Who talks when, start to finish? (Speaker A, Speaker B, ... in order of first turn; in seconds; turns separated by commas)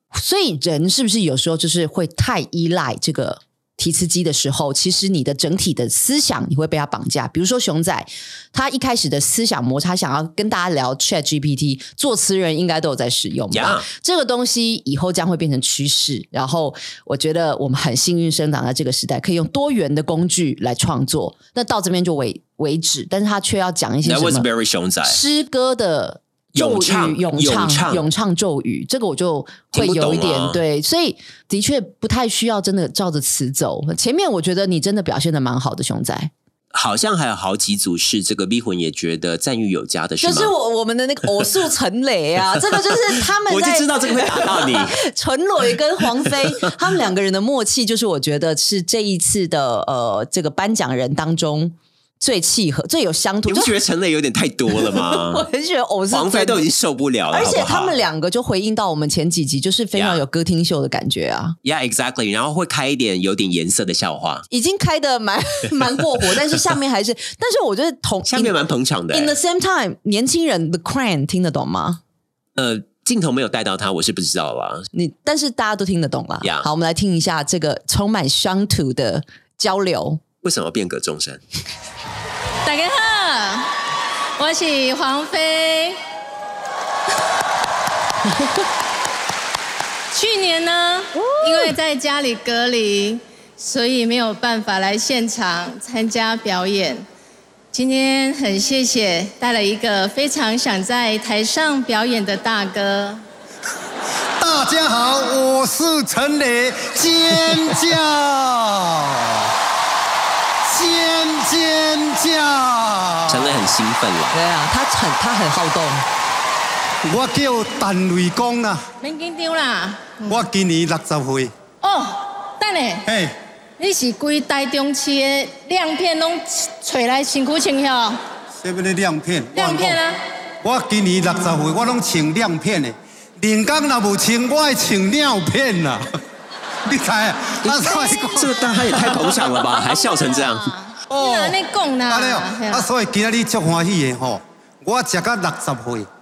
Speaker A: 0.1-24.5, Speaker B: 13.5-13.8, Speaker B: 24.0-25.2, Speaker A: 25.0-36.3, Speaker B: 26.5-28.0, Speaker B: 29.7-30.6, Speaker B: 36.7-40.5, Speaker A: 40.2-53.7, Speaker B: 43.5-45.0, Speaker B: 53.5-55.5, Speaker A: 54.9-56.6, Speaker B: 56.1-58.0, Speaker A: 57.3-61.6, Speaker B: 59.9-60.2, Speaker B: 61.6-64.5, Speaker A: 64.5-68.5, Speaker B: 68.3-69.3, Speaker A: 69.1-72.0, Speaker B: 72.6-74.9, Speaker A: 74.9-80.2, Speaker B: 80.4-81.4, Speaker C: 82.6-83.7, Speaker C: 84.4-86.0, Speaker C: 90.1-97.0, Speaker C: 97.7-103.2, Speaker D: 104.4-109.5, Speaker D: 110.7-113.6, Speaker B: 113.3-114.4, Speaker A: 114.3-116.0, Speaker D: 117.0-118.8, Speaker C: 119.0-120.4, Speaker D: 120.3-121.5, Speaker C: 121.8-123.0, Speaker D: 123.0-123.3, Speaker C: 123.8-128.2, Speaker D: 128.6-130.0, Speaker C: 129.5-130.2, Speaker D: 130.6-136.1, Speaker D: 136.9-139.5, Speaker B: 137.6-140.7, Speaker C: 137.9-138.2, Speaker C: 140.0-142.9, Speaker D: 141.1-146.1